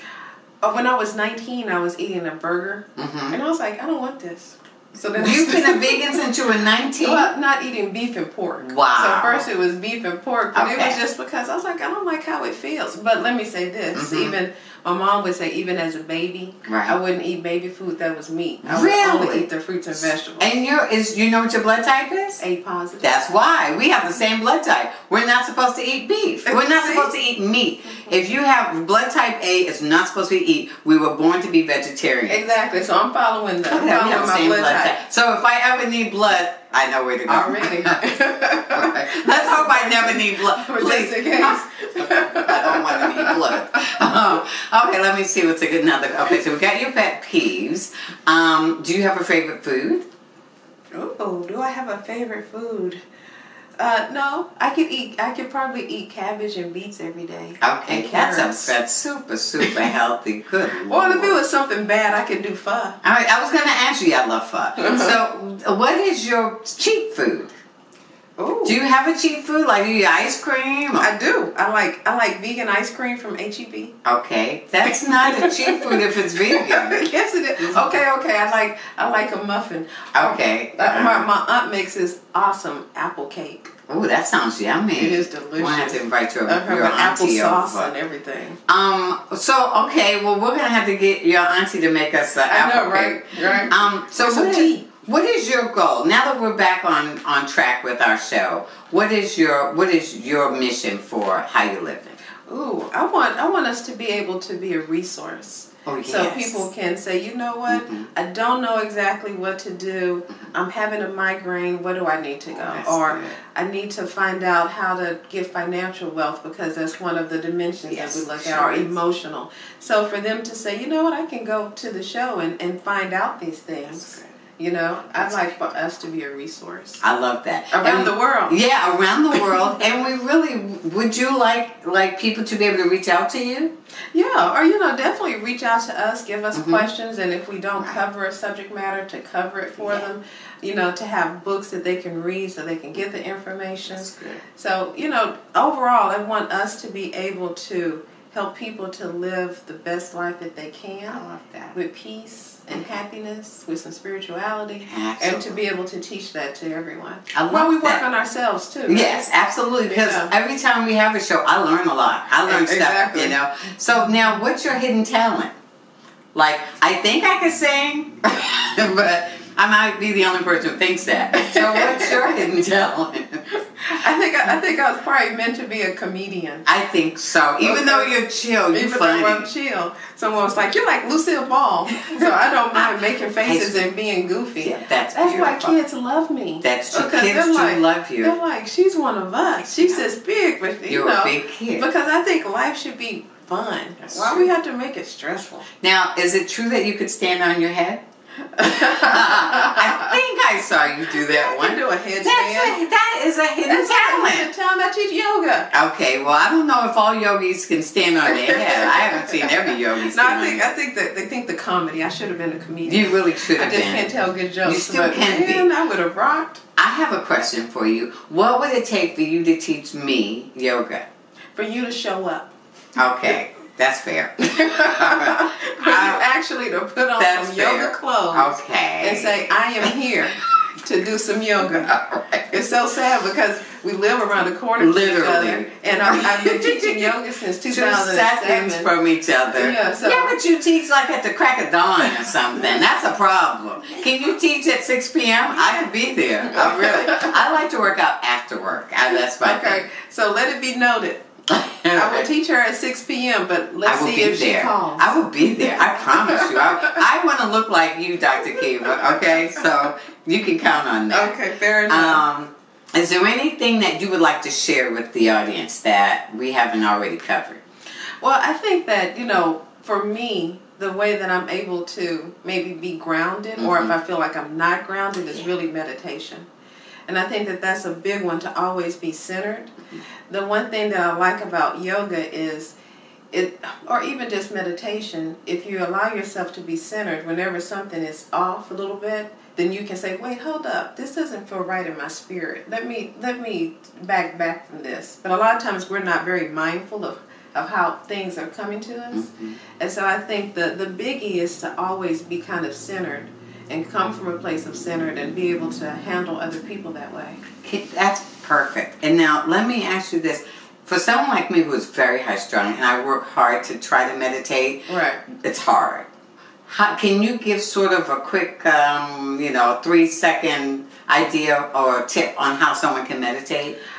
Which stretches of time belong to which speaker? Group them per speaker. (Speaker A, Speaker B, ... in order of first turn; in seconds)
Speaker A: 0.6-6.1, 7.0-20.5, 22.4-23.1, 26.4-27.1, 32.3-35.0, 37.3-43.9, 50.9-53.0, 53.8-58.7, 59.6-59.9, 60.9-63.0, 64.8-65.1, 68.4-68.8, 71.0-74.0, 74.9-83.7, 85.0-88.6, 92.5-94.9, 102.5-127.0, 127.7-128.6, 134.1-151.2, 151.7-159.3, 159.9-160.3, 162.4-163.4, 171.3-172.4, 173.9-176.7, 177.6-178.1, 178.7-195.7, 198.6-200.2, 201.1-202.9, 203.6-205.7, 208.2-216.6, 221.6-222.5, 224.4-231.9, 232.5-238.9, 239.5-240.4, 246.5-247.3, 249.4-251.2, 251.9-257.0, 258.4-259.4, 261.1-262.2, 268.2-276.5, 277.1-279.7, 280.3-282.8, 283.3-299.3, 299.8-307.4, 314.9-315.2
Speaker B: 3.0-3.4, 5.2-7.3, 8.6-9.5, 10.6-11.0, 13.9-14.4, 16.6-17.0, 18.6-22.4, 23.0-32.4, 33.7-38.1, 38.7-50.1, 57.6-61.4, 63.0-67.5, 68.7-71.1, 74.0-77.0, 77.6-77.9, 80.2-81.2, 83.9-87.9, 88.7-102.2, 105.9-106.7, 107.7-108.1, 112.5-113.4, 117.9-118.9, 123.9-124.3, 125.2-125.6, 127.0-133.7, 136.5-136.9, 139.8-140.1, 143.9-144.4, 151.1-151.8, 154.8-155.6, 157.3-158.0, 158.9-165.5, 166.3-173.4, 176.7-179.5, 183.4-183.8, 184.6-185.8, 186.6-188.3, 189.7-190.0, 190.9-191.9, 194.0-194.5, 195.8-198.0, 198.6-204.5, 205.7-210.7, 212.8-214.1, 214.6-215.7, 216.8-221.1, 223.0-226.2, 227.2-229.4, 231.7-232.6, 234.8-237.1, 237.7-249.8, 251.5-252.3, 253.8-261.4, 261.9-267.6, 273.6-273.9, 299.1-299.6, 307.6-316.1, 316.7-323.8